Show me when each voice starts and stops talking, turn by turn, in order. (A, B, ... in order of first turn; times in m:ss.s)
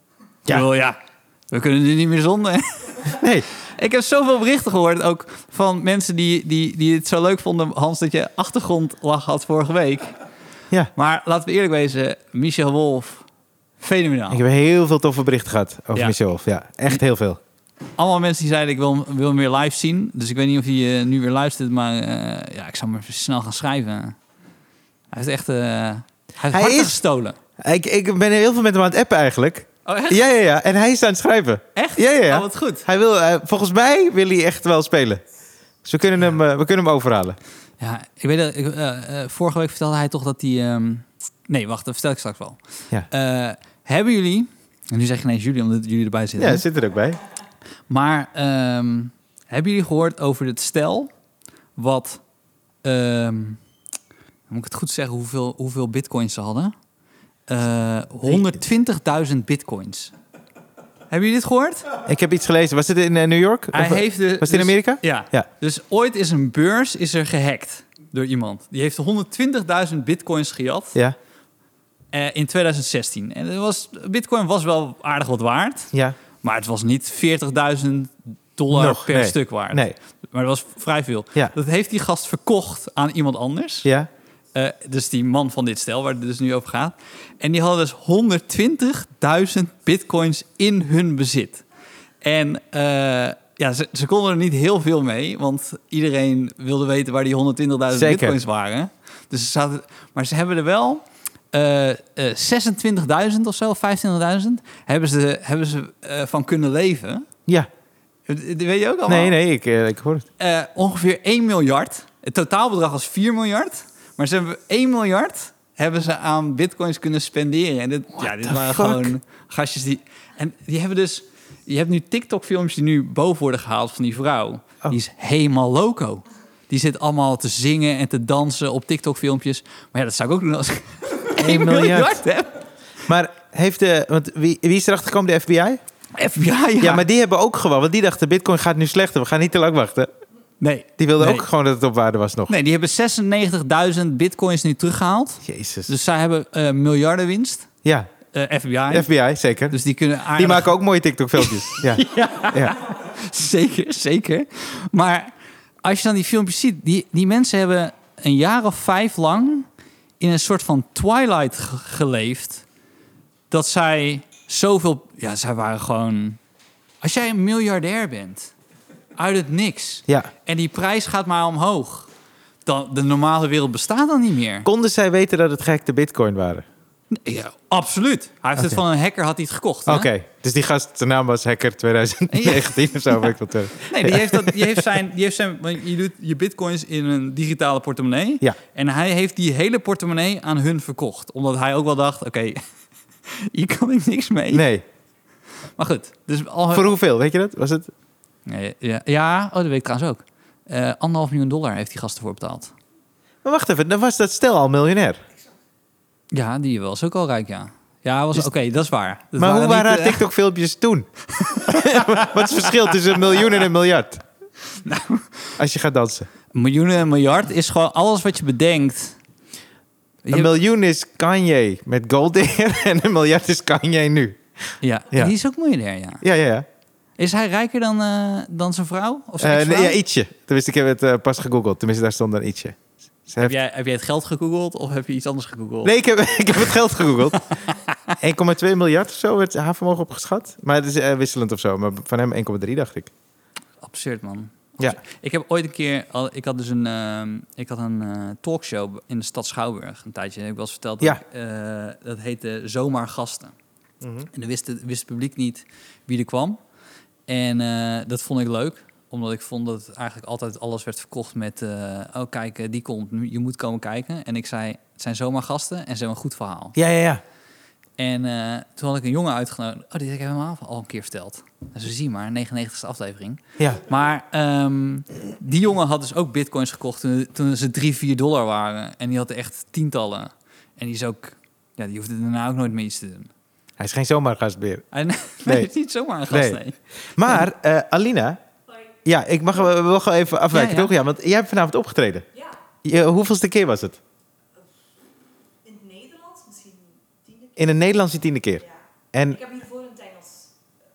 0:00.5-0:01.0 A
0:01.5-0:10.1 A
0:03.1-0:03.5 B
0:10.9-0:13.2 A
0:13.8-0:14.4 A
0:14.3-0:17.4 B
0:18.0-0:24.2 A
0:25.1-0:27.4 A
0:26.5-0:27.0 B
0:27.6-0:35.2 B
0:29.8-0:30.2 A
0:31.7-0:32.9 A
0:35.8-0:37.4 B
0:37.8-0:46.6 A
0:46.4-0:47.2 B
0:47.9-0:51.1 A
0:51.8-0:52.2 A
0:52.8-0:53.6 A
0:54.5-0:56.7 A
0:57.5-1:00.1 A
0:58.2-0:58.6 B
1:01.1-1:01.8 A
1:02.0-1:05.5 B
1:03.7-1:11.0 A
1:12.1-1:23.9 A
1:18.7-1:19.9 B
1:24.5-1:31.6 A
1:32.2-1:47.3 A
1:37.9-1:38.4 B
1:48.3-1:49.4 A
1:49.1-1:50.3 B
1:50.4-2:12.6 A
1:58.2-1:59.1 B
2:11.4-2:12.2 B
2:13.1-2:15.8 B
2:16.2-2:17.0 A
2:16.8-2:20.1 B
2:20.6-2:21.5 A
2:21.0-2:22.5 B
2:22.5-2:27.7 A
2:25.4-2:25.9 B
2:28.3-2:29.1 A
2:28.9-2:29.8 B
2:29.7-2:30.8 A
2:30.3-2:32.7 B
2:31.4-2:39.7 A
2:40.2-2:42.6 A
2:43.5-2:46.4 A
2:47.0-2:48.5 A
2:49.2-2:52.1 A
2:52.6-2:54.7 A
2:54.6-2:56.6 B
2:57.1-3:00.1 A
2:59.8-3:04.8 B
3:02.3-3:12.6 A
3:13.2-3:14.6 A
3:14.5-3:14.8 B
3:15.8-3:16.9 A
3:16.7-3:17.9 B
3:18.4-3:22.7 A
3:23.4-3:25.2 B
3:26.3-3:30.2 A
3:29.4-3:34.2 B
3:31.4-3:32.3 A
3:34.7-3:35.5 A
3:35.6-3:36.3 B
3:36.5-3:39.2 A
3:40.2-3:40.5 A
3:40.3-3:44.4 B
3:44.8-3:46.2 A
3:46.2-3:46.7 B
3:47.2-3:50.0 A
3:49.4-3:53.5 B
3:53.4-3:55.9 A
3:55.8-3:57.4 B
3:57.5-3:58.1 A
3:58.2-4:03.1 B
4:03.8-4:13.5 A
4:14.0-4:14.3 B
4:14.3-4:16.6 A
4:17.3-4:26.8 A
4:26.8-4:27.2 B
4:28.0-4:43.3 A
4:43.8-4:44.8 B
4:44.9-4:47.4 A
4:45.4-4:45.7 B
4:46.3-4:46.6 B
4:47.2-4:48.4 B
4:49.0-4:52.3 B
4:50.5-4:50.9 A
4:52.8-4:54.0 B
4:55.6-4:56.9 C
4:57.6-4:59.4 B
4:59.4-5:00.5 C